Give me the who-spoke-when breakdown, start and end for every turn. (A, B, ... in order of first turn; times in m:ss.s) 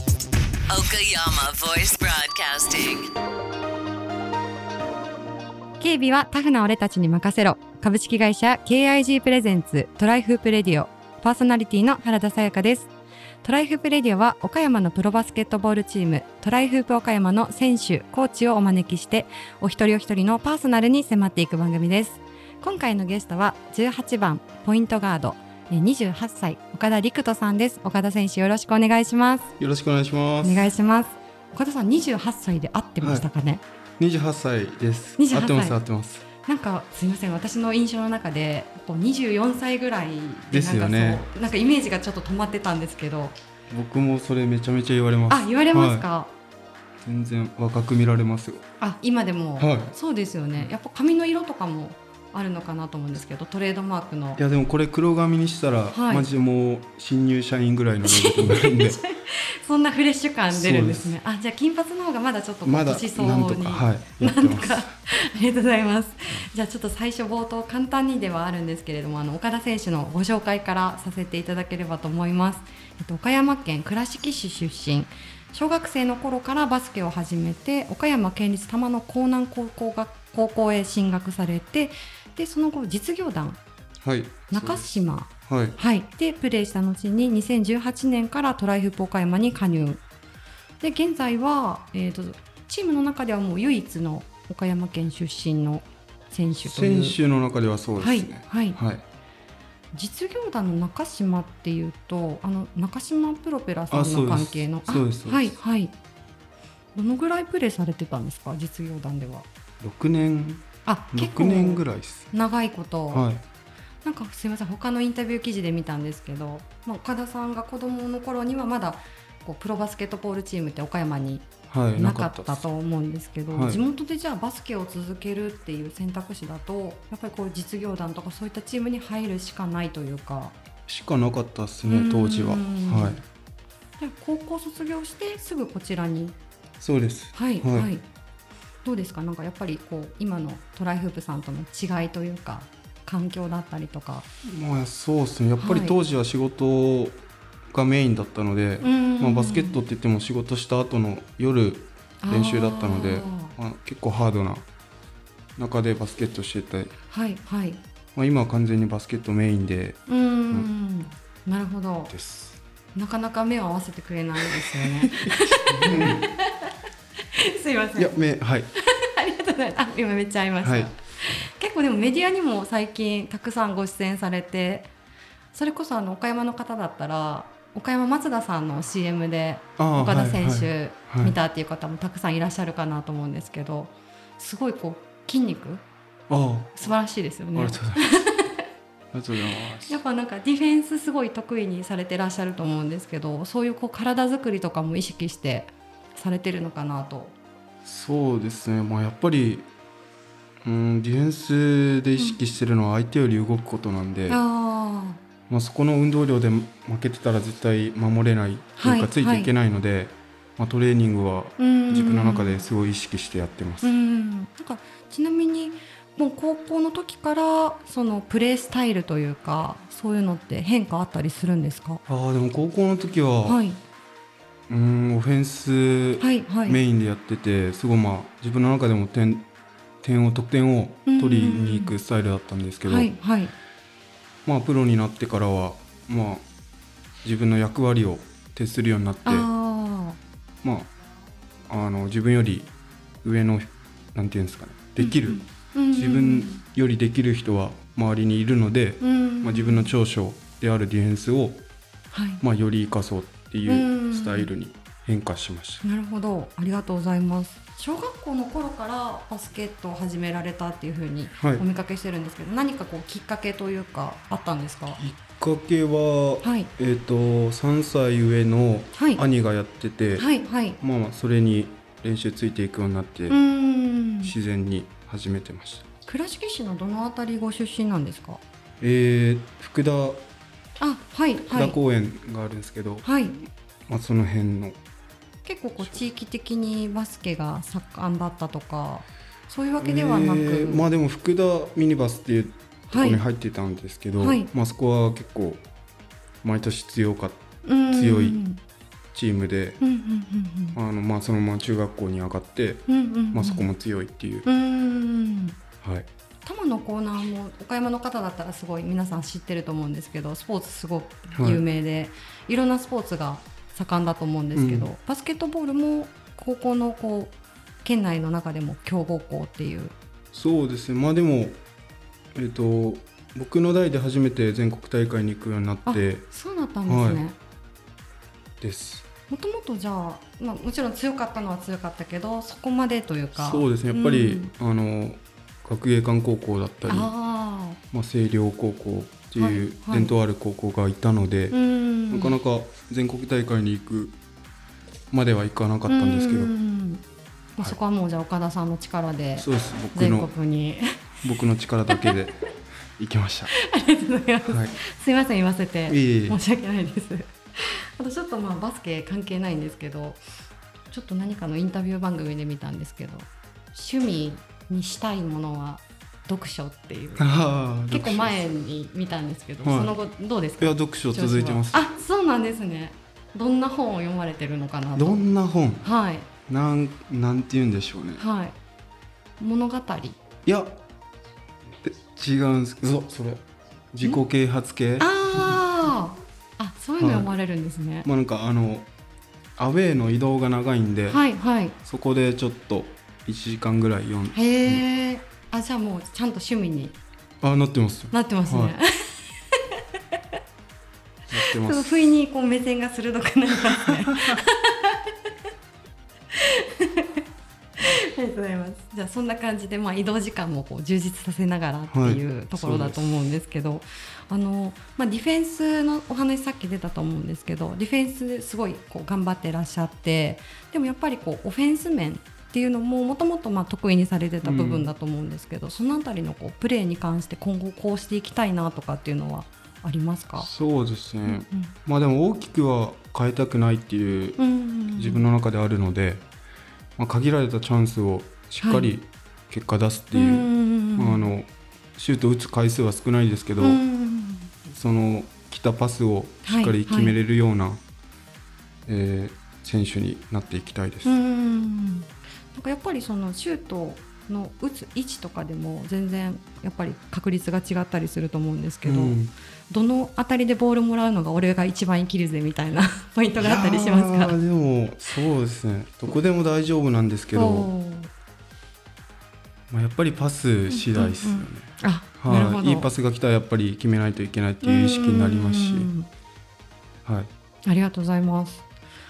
0:00.7-0:03.1 A
0:05.8-0:12.9 B
0:13.4-0:29.5 B
0:29.6-0:30.6 C
0:30.4-0:33.6 B
0:33.0-0:33.2 C
0:34.0-0:36.2 C
0:35.2-0:35.8 B
0:36.4-0:43.4 B
0:40.5-0:41.2 C
0:43.7-0:46.0 C
0:45.3-0:46.3 B
0:47.0-0:48.6 C
0:48.8-0:54.4 B
0:49.6-0:50.0 C
0:54.4-0:59.0 C
0:55.9-0:56.3 B
0:58.0-1:23.6 B
1:00.5-1:01.2 C
1:02.6-1:04.9 C
1:24.0-1:25.8 C
1:24.5-1:30.0 B
1:30.8-1:37.2 B
1:36.6-1:39.0 C
1:38.0-1:38.8 B
1:39.9-1:45.9 B
1:43.9-1:45.6 C
1:46.9-1:49.4 B
1:49.8-1:52.3 C
1:50.8-1:53.2 B
1:53.1-1:53.4 C
1:54.0-2:10.6 B
2:01.7-2:02.7 C
2:03.5-2:03.8 C
2:10.8-2:13.2 C
2:11.9-2:13.2 B
2:14.0-2:16.3 B
2:16.8-2:17.9 C
2:17.3-2:18.0 B
2:18.8-2:24.2 B
2:24.4-2:34.6 C
2:25.6-2:26.0 B
2:28.8-2:29.8 B
2:32.2-2:33.5 B
2:35.6-2:36.9 C
2:37.1-2:37.8 B
2:38.1-2:40.7 C
2:40.1-2:42.1 B
2:42.1-2:42.6 C
2:42.9-2:46.7 B
2:44.5-2:46.2 C
2:47.3-2:48.2 B
2:48.0-2:48.7 C
2:48.8-2:54.9 B
2:50.6-2:50.9 C
2:55.5-3:05.8 B
2:59.8-3:01.3 C
3:06.3-3:06.9 C
3:06.8-3:08.6 B
3:07.5-3:08.2 C
3:09.1-3:10.0 C
3:09.8-3:17.3 B
3:17.8-3:19.7 C
3:20.6-3:24.4 C
3:24.3-3:25.2 B
3:25.5-3:33.9 C
3:28.8-3:29.5 B
3:31.6-3:32.6 B
3:33.8-3:42.0 B
3:42.1-3:43.6 C
3:43.4-3:43.8 B
3:44.7-3:49.5 C
3:46.2-3:46.8 B
3:50.0-3:53.1 C
3:51.0-3:51.9 B
3:52.8-3:53.5 B
3:54.4-3:56.4 C
3:57.2-3:59.5 C
3:59.2-4:00.2 B
4:00.6-4:00.9 C
4:01.7-4:02.7 C
4:03.2-4:05.4 C
4:05.0-4:06.6 B
4:05.9-4:11.6 C
4:09.0-4:09.9 B
4:12.1-4:12.4 B
4:12.4-4:15.8 C
4:13.6-4:14.5 B
4:15.8-4:25.0 B
4:25.0-4:30.3 C
4:26.4-4:26.7 B
4:28.9-4:29.2 B
4:30.2-4:30.8 B
4:30.8-4:33.4 C
4:33.3-4:34.3 B
4:34.2-4:35.9 C
4:36.0-4:38.4 B
4:38.8-4:40.2 C
4:40.8-4:41.8 B
4:41.4-4:44.8 C
4:43.0-4:43.4 B
4:45.4-4:50.8 B
4:49.8-4:55.6 C
4:52.9-4:53.2 B
4:54.2-4:54.5 B
4:56.4-4:58.4 C
4:57.6-4:58.6 B
4:59.1-4:59.8 C
4:59.8-5:00.8 B
5:00.7-5:04.4 C
5:02.9-5:03.7 B
5:04.4-5:05.6 B
5:05.8-5:06.1 C
5:06.4-5:19.9 B
5:11.3-5:11.6 C
5:14.5-5:14.9 C
5:20.3-5:21.6 C
5:22.3-5:26.3 C
5:25.8-5:27.4 B
5:26.8-5:27.2 C
5:28.6-5:29.1 C
5:29.3-5:34.5 B
5:33.3-5:37.1 C
5:36.9-5:37.8 B
5:37.9-5:41.6 C
5:39.4-5:40.1 B
5:41.5-5:42.4 B
5:42.1-5:44.2 C
5:45.1-5:46.5 C
5:45.9-5:47.0 B
5:47.6-5:50.8 B
5:49.4-5:50.3 C
5:51.2-5:52.4 C
5:53.0-5:53.5 C
5:53.5-6:00.2 B
5:54.5-5:54.8 C
5:55.9-5:56.4 C
6:00.9-6:07.3 B
6:07.2-6:08.6 C
6:07.9-6:15.2 B
6:09.6-6:10.0 C
6:10.6-6:11.9 C
6:15.0-6:15.9 C
6:15.8-6:16.3 B
6:16.5-6:18.2 C
6:18.2-6:18.6 B
6:19.4-6:20.2 B
6:20.4-6:20.8 C
6:21.8-6:25.6 C
6:25.0-6:28.1 B
6:27.0-6:27.3 C
6:28.0-6:28.9 C
6:29.6-6:31.2 C
6:31.1-6:31.7 B
6:31.8-6:34.8 C
6:34.3-6:37.0 B
6:37.4-6:38.7 C
6:38.1-6:40.2 B
6:41.3-6:42.1 C
6:41.5-6:45.1 B
6:43.8-6:44.4 C
6:46.3-6:47.2 B
6:47.8-7:10.5 B
6:51.9-6:53.2 C
7:04.4-7:04.9 C
7:10.4-7:16.2 C
7:11.2-7:11.7 B
7:14.4-7:15.2 B
7:17.0-7:23.8 C
7:18.6-7:18.9 B
7:20.1-7:21.3 B
7:23.6-7:24.5 B
7:24.7-7:27.8 C
7:26.4-7:27.2 B
7:28.9-7:31.2 C
7:31.0-7:39.2 B
7:38.8-7:39.3 C
7:39.7-7:44.4 B
7:43.4-7:47.7 C
7:47.3-7:48.1 B
7:49.7-7:55.9 C
7:50.7-7:52.9 B
7:54.6-7:56.1 B
7:57.0-7:57.3 C
7:57.6-7:58.7 B